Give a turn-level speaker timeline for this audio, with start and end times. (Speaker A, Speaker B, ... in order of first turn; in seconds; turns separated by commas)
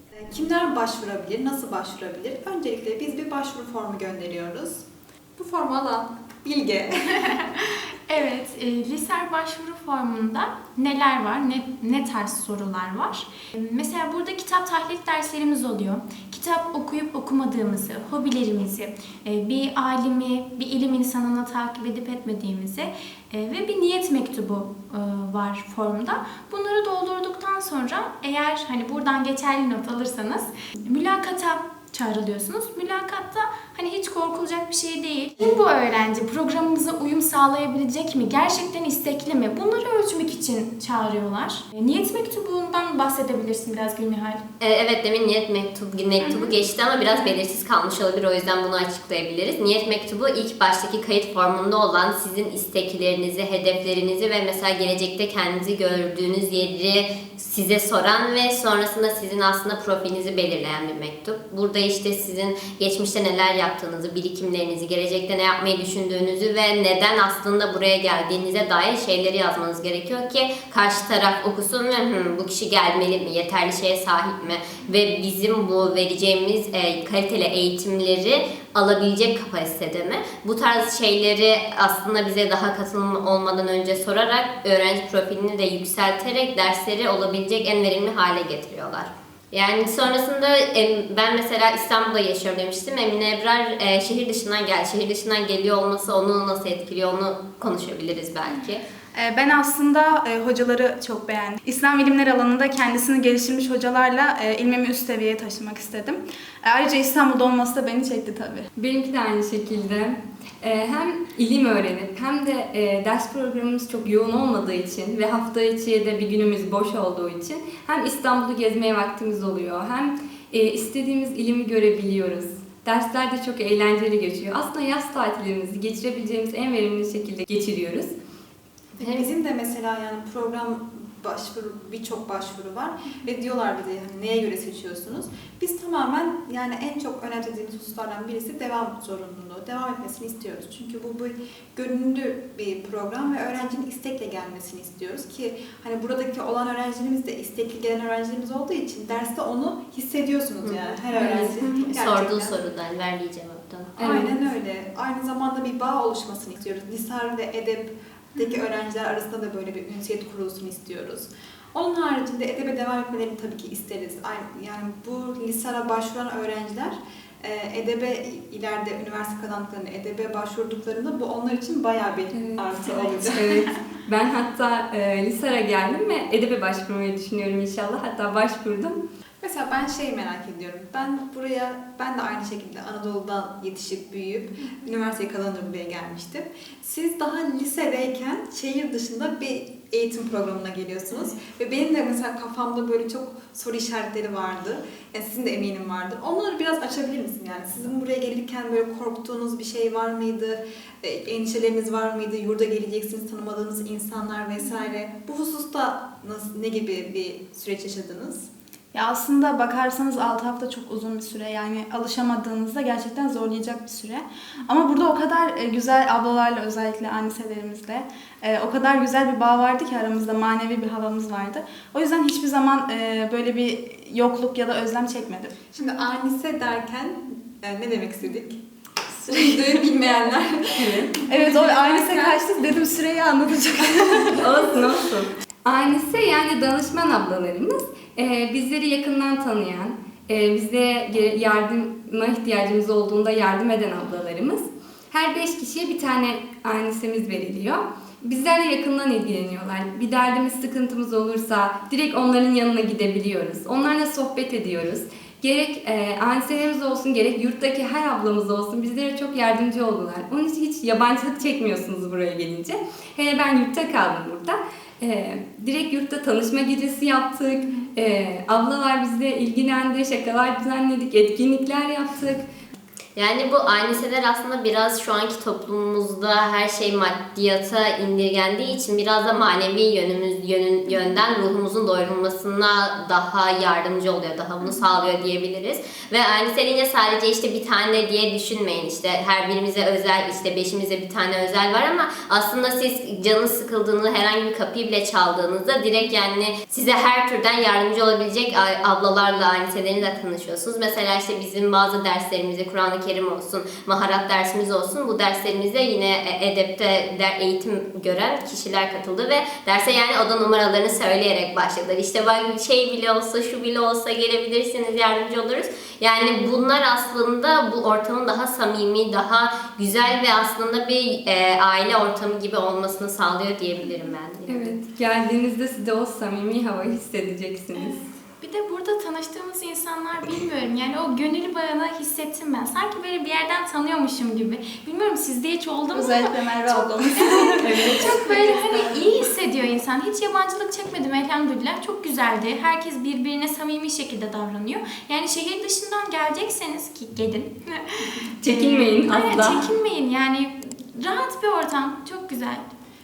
Speaker A: 0.2-4.8, Speaker A: 5.3-7.4, Speaker B: 7.3-44.4, Speaker C: 44.6-98.8, Speaker B: 46.2-46.5, Speaker D: 99.2-108.6, Speaker E: 108.8-128.1, Speaker C: 129.0-129.2, Speaker A: 129.0-152.6, Speaker C: 150.6-154.0, Speaker E: 154.0-154.4, Speaker A: 154.0-173.5, Speaker E: 172.3-179.0, Speaker A: 179.4-208.5, Speaker D: 208.9-225.6, Speaker A: 225.7-228.6, Speaker A: 229.2-232.6, Speaker E: 230.8-231.1, Speaker D: 231.3-234.5, Speaker E: 234.4-272.4, Speaker C: 273.1-324.7, Speaker E: 324.5-328.0, Speaker B: 327.8-352.6, Speaker D: 335.9-337.8, Speaker E: 337.6-338.7, Speaker E: 348.4-349.6